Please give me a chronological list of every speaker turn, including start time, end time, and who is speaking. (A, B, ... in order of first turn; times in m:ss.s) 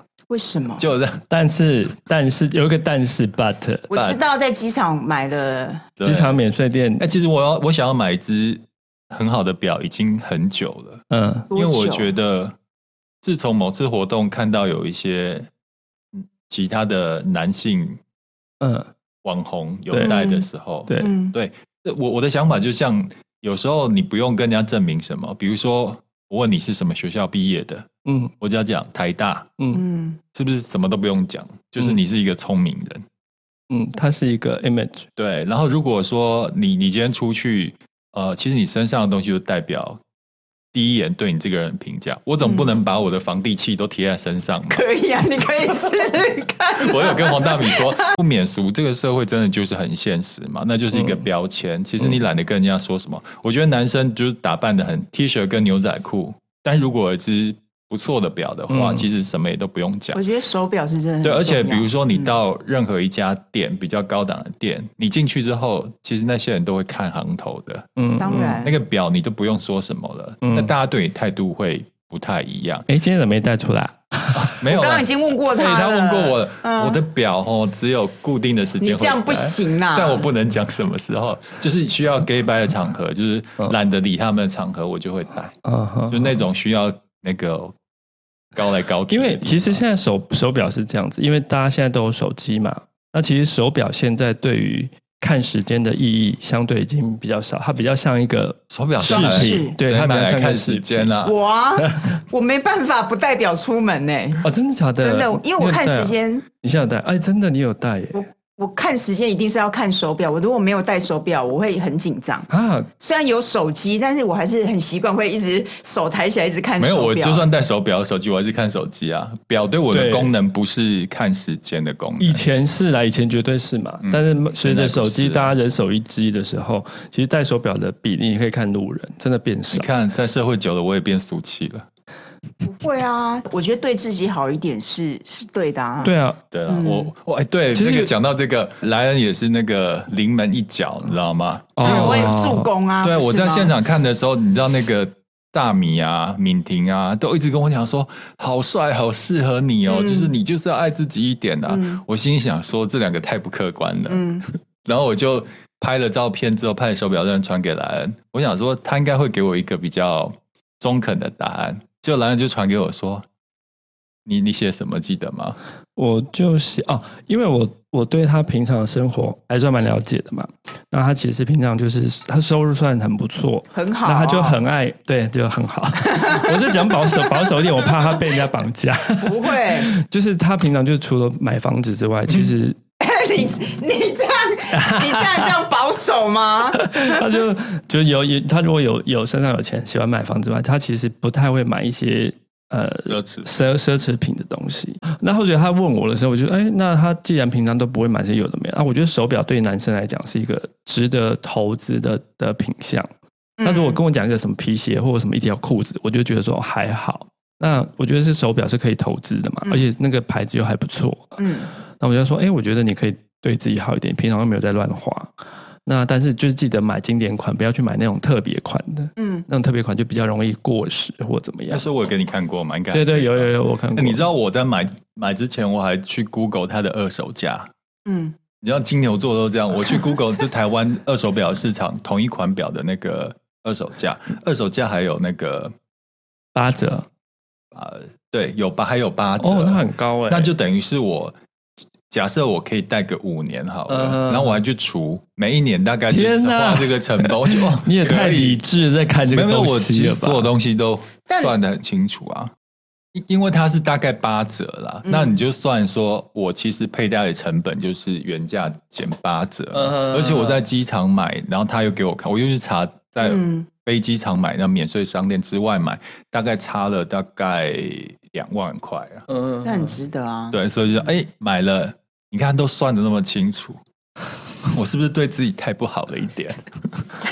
0:00.3-0:00.8 A
0:00.8-0:01.2 B
0:01.3-0:03.9 C
0:03.9-0:05.9 A
0:03.9-0:04.2 B
0:06.0-0:06.4 B
0:06.0-0:07.1 C
0:07.0-0:12.5 B
0:11.1-0:11.5 C
0:11.5-0:12.1 A
0:13.2-0:15.5 B
0:16.1-0:18.0 B
0:18.6-0:18.9 C
0:19.2-0:27.9 B
0:19.9-0:20.2 C
0:20.0-0:20.4 A
0:20.9-0:21.1 C
0:21.0-0:21.3 A
0:28.0-0:28.3 C
0:28.4-0:29.5 B
0:29.7-0:30.2 A
0:30.3-0:33.0 B
0:33.7-0:35.1 C
0:35.2-0:40.0 B
0:40.7-0:44.8 B
0:42.4-0:42.7 A
0:44.7-0:48.1 A
0:46.8-1:00.2 B
0:58.7-0:59.0 C
1:00.1-1:02.3 A
1:01.2-1:12.9 B
1:08.0-1:08.6 C
1:08.2-1:08.7 A
1:10.4-1:10.7 C
1:12.9-1:14.6 C
1:14.3-1:25.5 B
1:14.7-1:17.0 A
1:18.8-1:20.3 A
1:25.6-1:26.4 C
1:26.1-1:27.7 B
1:28.5-1:29.8 B
1:29.1-1:41.1 C
1:38.7-1:41.4 B
1:39.1-1:39.8 A
1:41.2-1:44.4 A
1:41.8-1:42.1 C
1:44.4-1:48.2 C
1:45.0-1:46.4 A
1:48.1-1:57.5 A
1:52.5-1:52.9 C
1:56.8-2:02.4 B
1:59.9-2:00.3 C
2:02.2-2:09.9 C
2:04.0-2:05.5 B
2:09.7-2:11.9 B
2:12.6-2:16.1 A
2:16.0-2:16.4 C
2:16.5-2:22.4 B
2:16.7-2:17.1 A
2:17.7-2:18.1 C
2:21.8-2:22.7 C
2:21.8-2:23.7 A
2:23.0-2:34.2 B
2:29.8-2:30.3 A
2:31.7-2:32.0 A
2:34.1-2:34.4 A
2:34.8-2:43.2 B
2:44.2-2:45.6 B
2:46.0-3:02.8 C
2:53.7-2:54.6 A
2:56.0-2:57.9 A
2:59.2-2:59.9 A
3:03.0-3:07.0 A
3:04.7-3:05.5 C
3:06.7-3:23.1 C
3:13.0-3:13.5 B
3:23.6-3:24.0 A
3:23.6-3:31.4 C
3:31.4-3:31.7 A
3:32.0-3:35.3 C
3:35.8-3:41.8 C
3:39.2-3:39.4 A
3:41.7-3:47.7 B
3:42.9-3:44.2 C
3:48.0-3:48.3 A
3:48.6-3:55.7 B
3:56.5-3:57.1 C
3:57.7-4:01.3 B
3:59.4-4:00.5 C
4:02.1-4:08.6 B
4:03.9-4:04.6 C
4:06.1-4:10.5 C
4:09.3-4:12.5 B
4:11.3-4:11.5 A
4:13.1-4:29.3 B
4:15.0-4:15.4 A
4:19.7-4:20.6 C
4:23.2-4:23.7 A
4:29.3-4:29.9 C
4:29.6-4:30.6 A
4:30.5-4:33.8 B
4:34.6-4:36.6 B